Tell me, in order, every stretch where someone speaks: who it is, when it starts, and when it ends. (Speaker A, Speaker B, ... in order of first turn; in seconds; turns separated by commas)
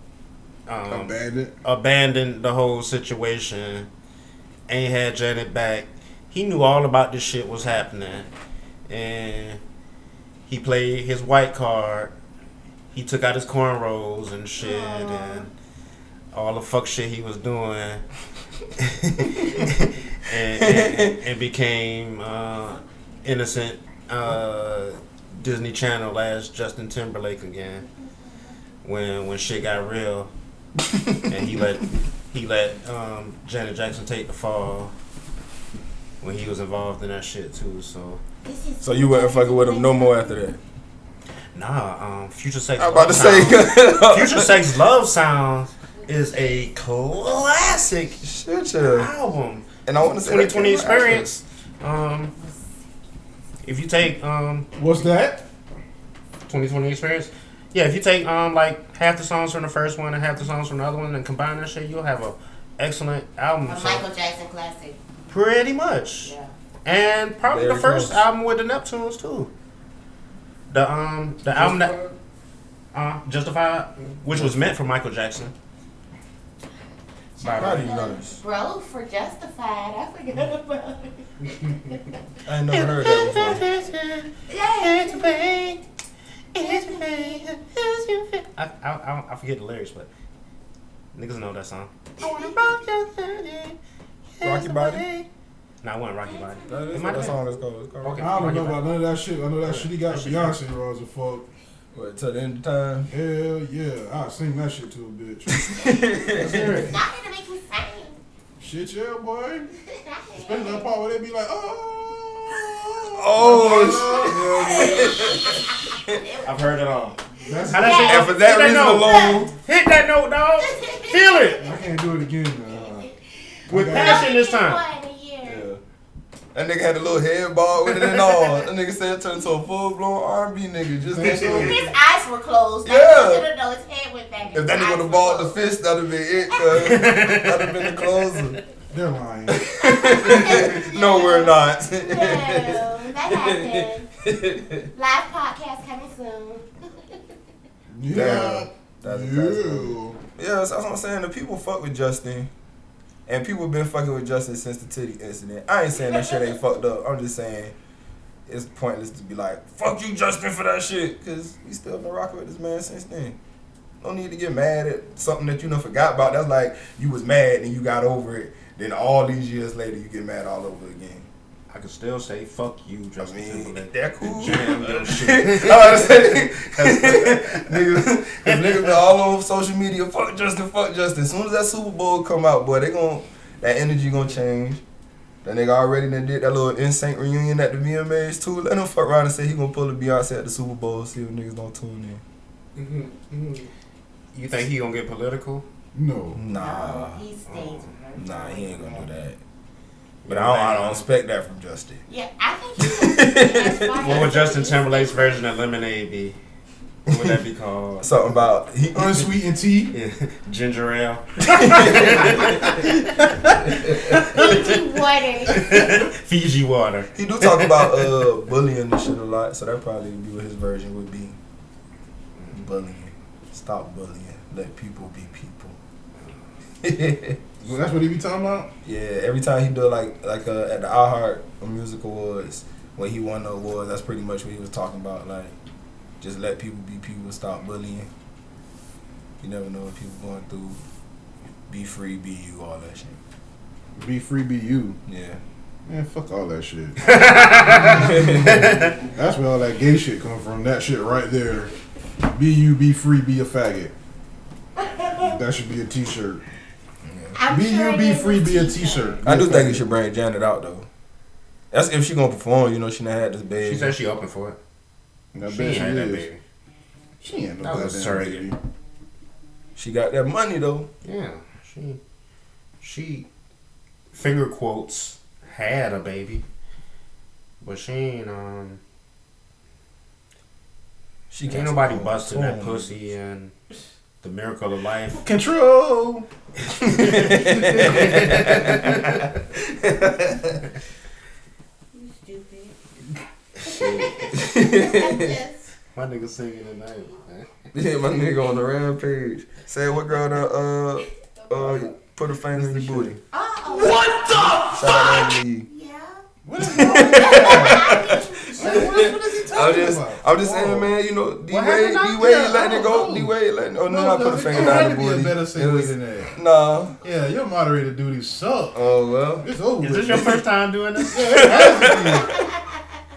Speaker A: 0.7-3.9, Speaker B: 0.9-1.5, Speaker A: 4.7-8.3, Speaker A: 8.9-9.6, Speaker A: 10.5-12.1, Speaker A: 12.9-15.5, Speaker C: 14.6-15.5, Speaker A: 16.3-18.0, Speaker A: 18.8-27.9, Speaker D: 20.6-21.1, Speaker C: 27.8-28.5, Speaker A: 28.8-30.3, Speaker A: 31.3-34.9, Speaker A: 36.2-38.2, Speaker C: 38.4-40.5, Speaker D: 38.8-40.6, Speaker A: 41.5-48.2, Speaker D: 42.8-44.6, Speaker C: 46.0-46.7, Speaker D: 48.2-49.1, Speaker A: 48.8-52.3, Speaker D: 49.9-51.4, Speaker A: 53.6-54.7, Speaker B: 54.8-55.4, Speaker A: 56.5-64.0, Speaker C: 63.6-65.0, Speaker A: 65.3-66.3, Speaker C: 66.2-66.5, Speaker A: 66.8-69.5, Speaker D: 67.4-68.2, Speaker A: 70.7-71.9, Speaker A: 72.9-75.5, Speaker D: 74.3-74.6, Speaker C: 77.4-82.1, Speaker A: 77.4-77.9, Speaker D: 77.5-78.4, Speaker D: 82.5-83.6, Speaker A: 82.7-85.8, Speaker C: 84.5-85.8, Speaker A: 86.5-90.1, Speaker C: 86.6-87.5, Speaker A: 91.1-93.8, Speaker C: 92.2-92.6, Speaker A: 94.3-95.3, Speaker D: 94.4-95.0, Speaker A: 95.8-97.4, Speaker C: 96.2-97.3, Speaker D: 96.7-98.7, Speaker A: 98.0-98.9, Speaker B: 98.2-101.5, Speaker A: 99.6-100.5, Speaker D: 101.9-103.1, Speaker B: 103.1-105.8, Speaker D: 105.5-106.8, Speaker A: 106.3-106.9, Speaker B: 106.4-106.9, Speaker C: 106.4-108.2, Speaker B: 108.6-109.7, Speaker C: 109.8-110.9, Speaker B: 110.4-115.3, Speaker C: 112.5-116.6, Speaker D: 113.1-116.2, Speaker A: 116.4-121.6, Speaker B: 117.4-118.2, Speaker C: 117.4-119.5, Speaker D: 118.0-119.5, Speaker C: 120.6-121.5, Speaker B: 121.6-123.1, Speaker C: 122.8-123.1, Speaker A: 123.7-124.8, Speaker B: 123.7-124.3, Speaker C: 123.7-125.7, Speaker D: 125.4-125.8, Speaker D: 126.5-131.8, Speaker A: 127.9-128.2, Speaker B: 131.1-131.9, Speaker C: 131.4-135.6, Speaker D: 132.8-133.5, Speaker D: 134.5-138.6, Speaker C: 136.5-136.9, Speaker A: 136.8-137.6, Speaker B: 138.9-139.6, Speaker D: 139.5-144.9, Speaker C: 139.8-144.1, Speaker C: 144.9-147.2, Speaker B: 147.9-150.2, Speaker D: 148.1-152.5, Speaker D: 153.3-157.7, Speaker C: 156.0-156.5, Speaker D: 158.4-163.4, Speaker D: 164.0-171.3, Speaker A: 171.7-178.9, Speaker D: 173.2-184.8, Speaker D: 185.4-192.2, Speaker A: 192.8-193.7, Speaker A: 194.3-195.6, Speaker B: 195.9-196.4, Speaker D: 196.3-197.2, Speaker C: 196.5-199.1, Speaker A: 197.4-197.9, Speaker D: 198.2-199.4, Speaker A: 200.2-201.1, Speaker D: 200.2-202.0, Speaker C: 202.1-205.4, Speaker D: 202.8-204.3, Speaker A: 204.0-206.4, Speaker A: 207.1-208.1, Speaker D: 207.1-207.3, Speaker D: 208.0-209.3, Speaker B: 208.9-209.9, Speaker A: 209.9-213.1, Speaker D: 211.5-212.6, Speaker B: 213.2-213.6, Speaker A: 213.8-214.8, Speaker C: 214.0-216.0, Speaker A: 215.5-218.1, Speaker D: 217.1-221.4, Speaker D: 222.5-225.8, Speaker D: 226.8-227.4, Speaker B: 227.6-228.7, Speaker D: 228.8-235.5, Speaker D: 236.2-238.1, Speaker D: 239.4-240.8, Speaker D: 241.7-243.2, Speaker B: 243.9-245.0, Speaker D: 245.1-245.4, Speaker B: 245.8-247.0, Speaker A: 247.0-249.0, Speaker B: 247.7-251.7, Speaker D: 247.9-248.6, Speaker B: 252.3-253.9, Speaker C: 254.8-255.3, Speaker B: 255.2-256.4, Speaker D: 257.0-257.4, Speaker C: 257.3-259.2, Speaker B: 257.5-259.9, Speaker D: 259.2-260.9, Speaker D: 261.7-263.9, Speaker A: 263.6-264.6, Speaker B: 265.3-266.3, Speaker A: 265.4-266.4, Speaker B: 267.2-268.6, Speaker A: 267.6-268.5, Speaker D: 269.8-270.9, Speaker A: 271.0-272.0, Speaker A: 272.8-273.3, Speaker A: 274.1-276.4, Speaker A: 277.6-278.8, Speaker D: 281.3-282.9, Speaker A: 281.4-283.5, Speaker A: 284.2-285.2, Speaker B: 285.1-286.3, Speaker D: 286.8-290.6, Speaker A: 286.9-289.2, Speaker C: 291.9-292.7, Speaker C: 293.6-295.7, Speaker D: 293.6-295.4, Speaker A: 295.9-297.5, Speaker D: 297.7-303.2, Speaker B: 302.5-303.2, Speaker C: 303.3-306.2, Speaker D: 304.6-305.7, Speaker B: 306.4-310.9, Speaker D: 306.6-316.9, Speaker C: 306.9-309.1, Speaker A: 311.5-312.3, Speaker B: 312.1-313.3, Speaker B: 313.8-316.3, Speaker B: 317.0-318.8, Speaker D: 318.7-319.5, Speaker B: 319.4-320.4, Speaker A: 319.8-321.6, Speaker B: 321.1-322.4, Speaker D: 321.1-322.6